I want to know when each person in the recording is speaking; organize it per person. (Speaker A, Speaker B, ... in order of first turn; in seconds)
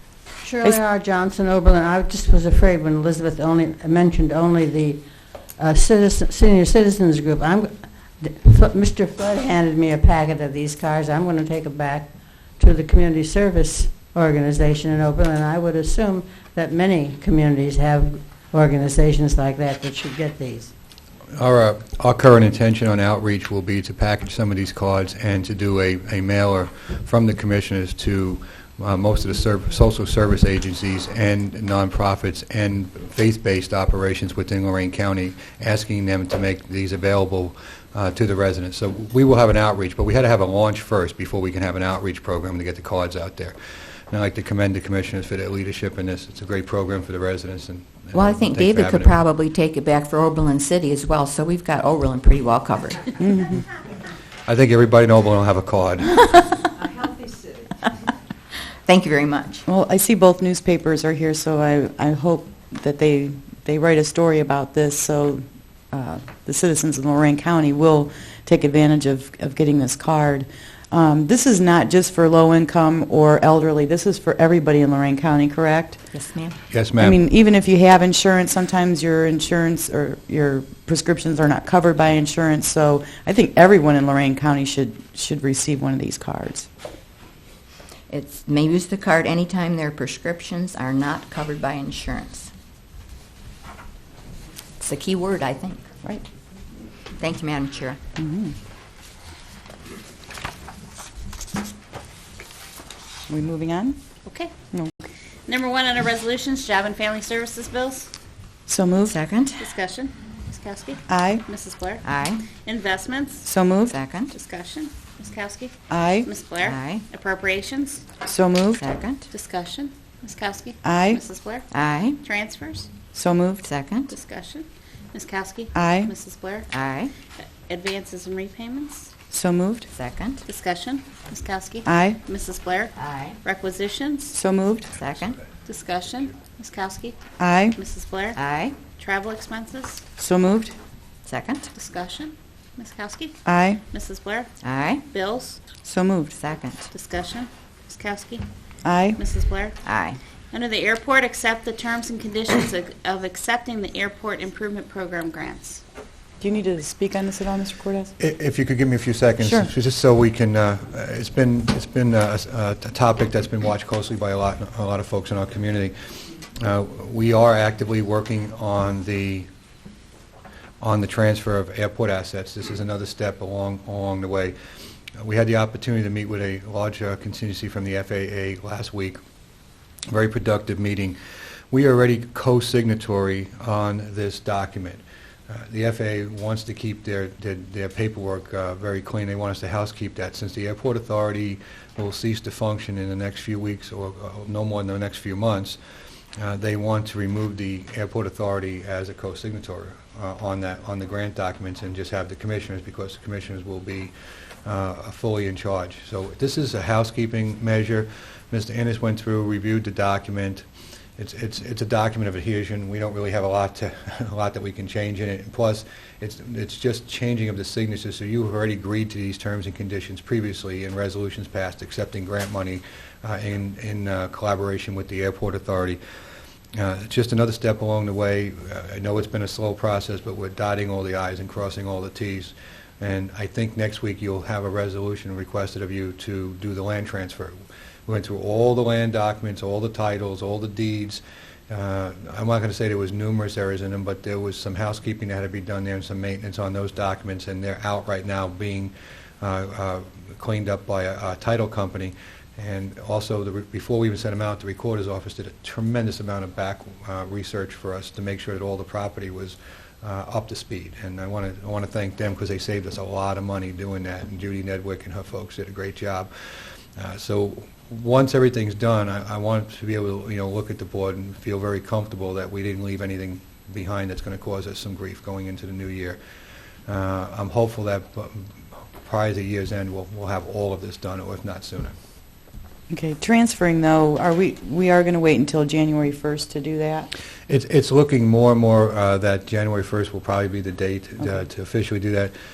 Speaker A: 0.4-5.0, 5.6-20.7
Speaker B: 21.4-43.5, 44.1-49.2, 54.5-56.4, 76.7-77.2, 158.2-165.9, 166.6-169.5, 170.8-174.6, 175.2-179.2, 180.1-181.2, 181.7-195.8, 196.4-204.1, 204.7-210.6, 211.2-226.0, 226.8-237.6, 238.1-266.3, 267.0-276.2, 276.9-278.4, 279.0-281.9, 287.5-292.3
Speaker C: 48.1-53.6, 58.8-59.7, 76.1-76.6, 88.1-92.5, 94.8-95.8, 97.2-98.0, 109.1-109.6, 112.0-112.5, 113.9-114.3, 116.6-117.0, 118.8-119.2, 121.7-122.2, 123.6-124.1, 126.7-127.1, 129.9-130.4, 133.0-133.4, 135.0-135.4, 138.3-138.8, 141.3-141.7, 144.6-145.0, 146.3-146.9, 149.8-150.2
Speaker D: 53.2-53.5, 59.7-76.0, 77.0-86.7, 98.2-98.5, 103.3-104.0, 108.7-109.2, 111.1-111.4, 113.5-114.0, 115.9-116.3, 118.2-118.8, 120.8-121.2, 123.1-123.7, 125.8-126.1, 129.3-129.9, 131.9-132.2, 134.3-134.9, 137.4-137.8, 140.2-140.7, 143.4-143.8, 145.8-146.4, 148.8-149.2, 156.4-158.1, 159.4-159.7, 282.9-287.1
Speaker E: 104.2-104.5, 105.5-108.1, 109.6-113.5, 114.3-118.0, 119.3-121.7, 122.2-122.9, 124.1-126.7, 127.5-129.1, 130.5-134.3, 135.7-137.2, 137.8-138.4, 139.0-140.0, 141.8-143.3, 143.9-144.5, 145.1-145.6, 146.9-148.4, 149.2-149.8, 150.5-155.8